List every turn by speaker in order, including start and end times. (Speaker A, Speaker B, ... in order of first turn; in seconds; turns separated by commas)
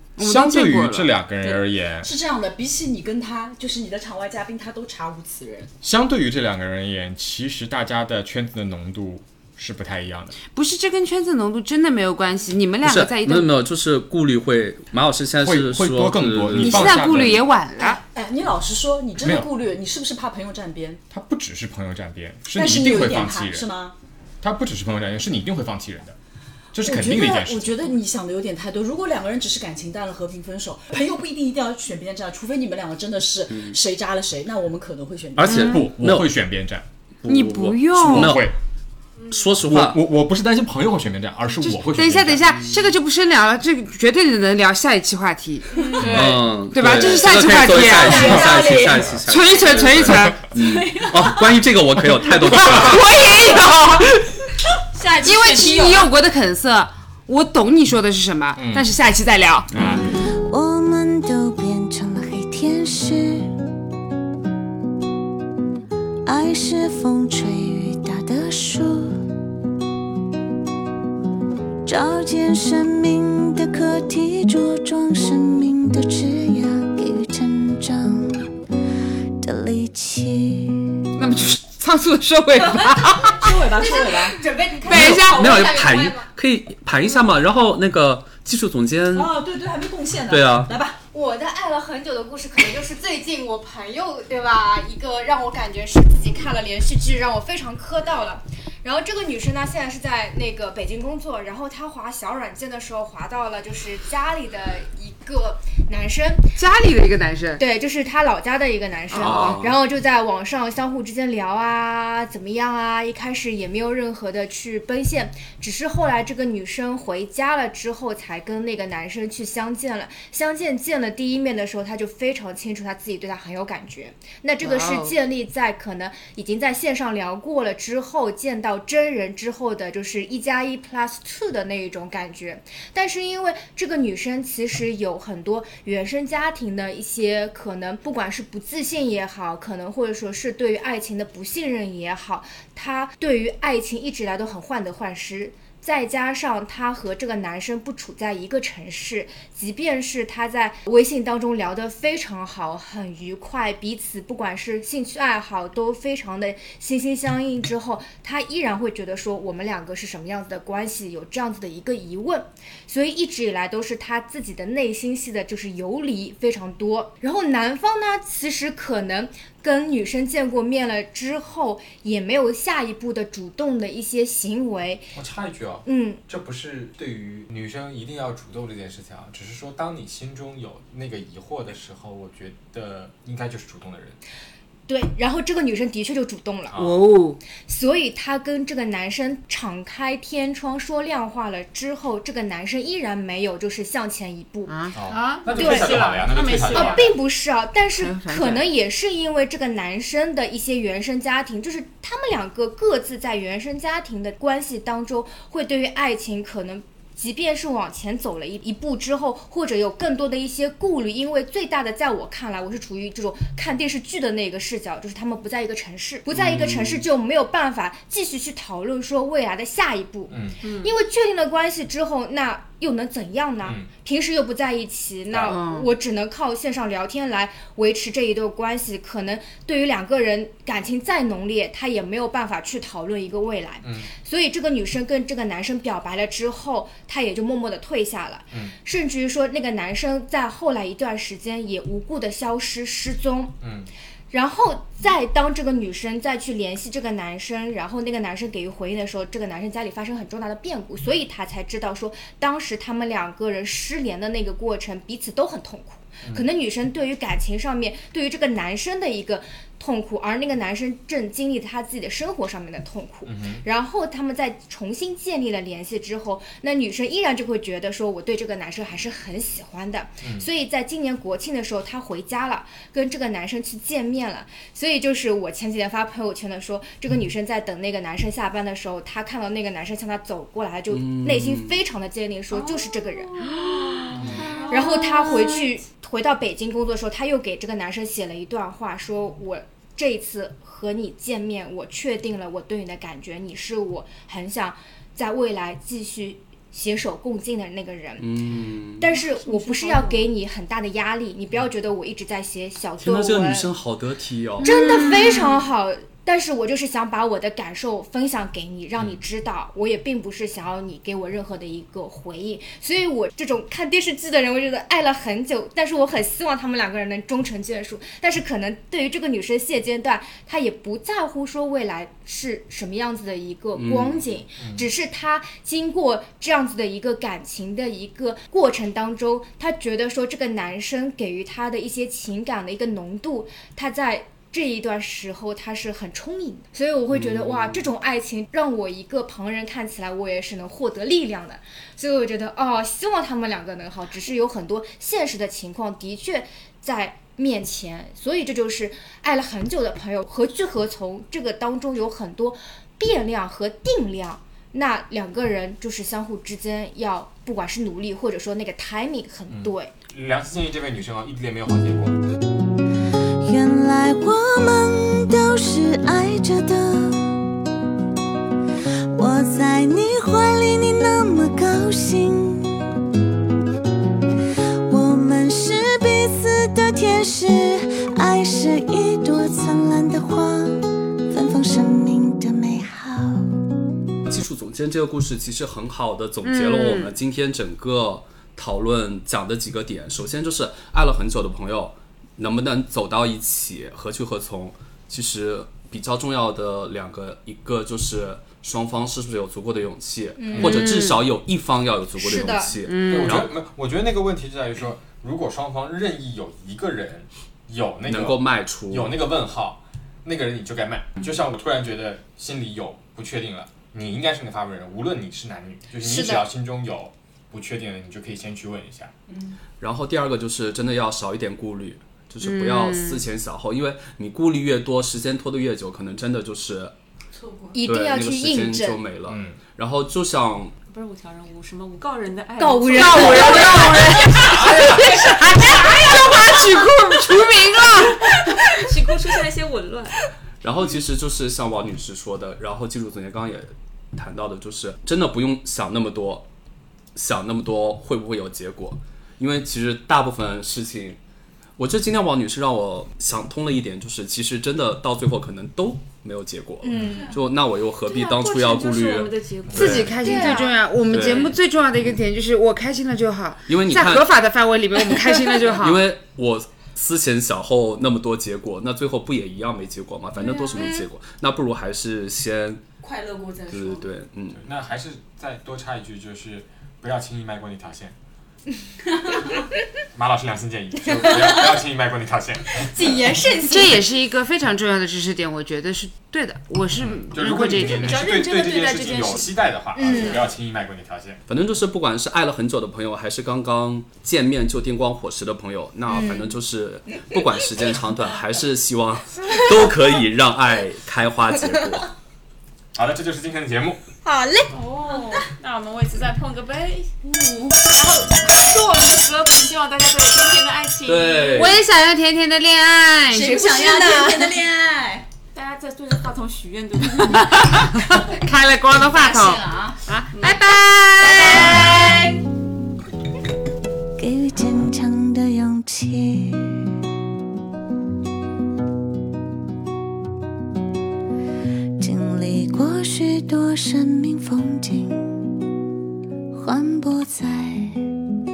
Speaker A: 0.2-1.1, Speaker B: 0.2-2.1, Speaker C: 1.4-5.7, Speaker B: 5.8-10.3, Speaker A: 10.5-13.5, Speaker D: 12.8-17.4, Speaker B: 15.4-17.4, Speaker A: 16.6-18.0, Speaker C: 17.8-21.0, Speaker B: 19.2-19.5, Speaker B: 21.1-23.7, Speaker C: 22.5-23.9, Speaker B: 24.4-26.2, Speaker B: 26.7-27.8, Speaker C: 26.8-35.6, Speaker D: 33.5-33.8, Speaker D: 35.4-36.3, Speaker A: 35.5-35.9, Speaker B: 35.6-36.9, Speaker D: 37.2-38.5, Speaker A: 37.3-38.4, Speaker B: 37.9-38.5, Speaker D: 39.3-40.0, Speaker B: 39.7-42.5, Speaker A: 41.8-48.7, Speaker C: 45.8-46.2, Speaker D: 46.0-53.2, Speaker E: 46.0-46.4, Speaker C: 47.8-49.1, Speaker B: 49.0-49.2, Speaker A: 49.3-50.5, Speaker B: 50.0-50.4, Speaker C: 50.5-51.6, Speaker A: 52.3-54.1, Speaker E: 54.9-56.1, Speaker A: 55.2-59.7, Speaker B: 58.6-58.9, Speaker B: 59.7-60.1, Speaker F: 60.1-63.5, Speaker F: 66.2-69.3, Speaker F: 71.8-78.5, Speaker F: 79.4-81.1, Speaker A: 81.2-83.5, Speaker C: 83.3-84.4, Speaker G: 83.8-86.3, Speaker A: 84.8-86.0, Speaker D: 84.9-89.3, Speaker C: 89.1-91.0, Speaker D: 90.3-90.7, Speaker G: 91.1-106.4, Speaker A: 106.6-107.6, Speaker G: 107.6-175.1, Speaker A: 109.1-109.6, Speaker D: 109.2-109.8, Speaker A: 124.6-125.2, Speaker B: 175.1-184.2, Speaker G: 175.8-176.2, Speaker G: 184.9-186.8, Speaker B: 186.7-187.0, Speaker A: 186.7-187.4, Speaker G: 187.7-194.9, Speaker A: 194.7-196.3, Speaker B: 194.9-197.2, Speaker E: 195.1-197.1, Speaker G: 195.5-243.6, Speaker A: 198.0-198.7, Speaker D: 216.3-217.0, Speaker B: 220.3-220.6, Speaker B: 223.6-223.9, Speaker B: 225.3-225.6, Speaker A: 225.4-225.9, Speaker B: 233.8-234.1, Speaker B: 243.6-243.9, Speaker G: 244.3-283.5, Speaker B: 263.3-263.6, Speaker D: 280.9-281.8, Speaker E: 283.9-285.1, Speaker B: 284.1-284.6, Speaker G: 284.1-298.3, Speaker D: 298.2-299.1, Speaker G: 299.0-303.7, Speaker E: 299.1-300.3, Speaker D: 303.0-305.0, Speaker G: 304.6-359.9, Speaker A: 304.6-305.6, Speaker D: 323.8-324.4, Speaker B: 324.6-324.9, Speaker D: 337.1-337.9, Speaker B: 359.5-362.2, Speaker F: 363.4-367.4, Speaker F: 369.1-372.9, Speaker F: 374.9-383.6, Speaker D: 384.3-403.5, Speaker A: 386.4-387.1, Speaker G: 400.4-400.8, Speaker A: 400.6-401.3, Speaker G: 402.2-402.8, Speaker A: 402.8-403.4, Speaker B: 403.0-419.1, Speaker D: 408.1-409.2, Speaker G: 416.0-416.5, Speaker D: 419.8-426.9, Speaker A: 422.4-423.2, Speaker C: 427.4-427.8, Speaker G: 427.7-429.1, Speaker D: 427.8-430.8, Speaker B: 429.3-429.6, Speaker E: 430.9-436.5, Speaker G: 432.6-435.0, Speaker A: 432.9-438.7, Speaker B: 434.4-435.0, Speaker E: 438.6-440.2, Speaker D: 440.6-446.5, Speaker D: 447.1-451.2, Speaker D: 451.8-460.4, Speaker G: 456.8-457.4, Speaker E: 458.1-459.8, Speaker B: 459.7-460.2, Speaker G: 459.7-460.8, Speaker A: 459.7-466.1, Speaker D: 461.1-461.6, Speaker D: 463.7-464.3, Speaker D: 465.7-472.8, Speaker C: 473.0-474.1, Speaker D: 473.7-474.6, Speaker B: 474.5-478.2, Speaker B: 480.1-483.4, Speaker G: 481.1-481.7, Speaker G: 482.8-484.1, Speaker A: 483.6-488.2, Speaker B: 486.9-491.4, Speaker E: 487.7-489.6, Speaker G: 489.9-490.4, Speaker D: 491.5-502.1, Speaker G: 496.1-496.5, Speaker B: 502.9-504.0, Speaker G: 504.3-504.6, Speaker E: 504.7-507.1, Speaker C: 507.3-508.1, Speaker E: 508.4-511.8, Speaker D: 511.0-511.8, Speaker A: 511.5-513.6, Speaker C: 513.3-515.3, Speaker G: 513.4-514.7, Speaker E: 515.5-518.1, Speaker A: 517.4-522.1, Speaker C: 519.0-520.0, Speaker E: 520.3-520.6, Speaker C: 521.2-522.3, Speaker G: 521.5-522.2, Speaker F: 524.2-527.0, Speaker F: 532.0-535.4, Speaker F: 536.5-538.1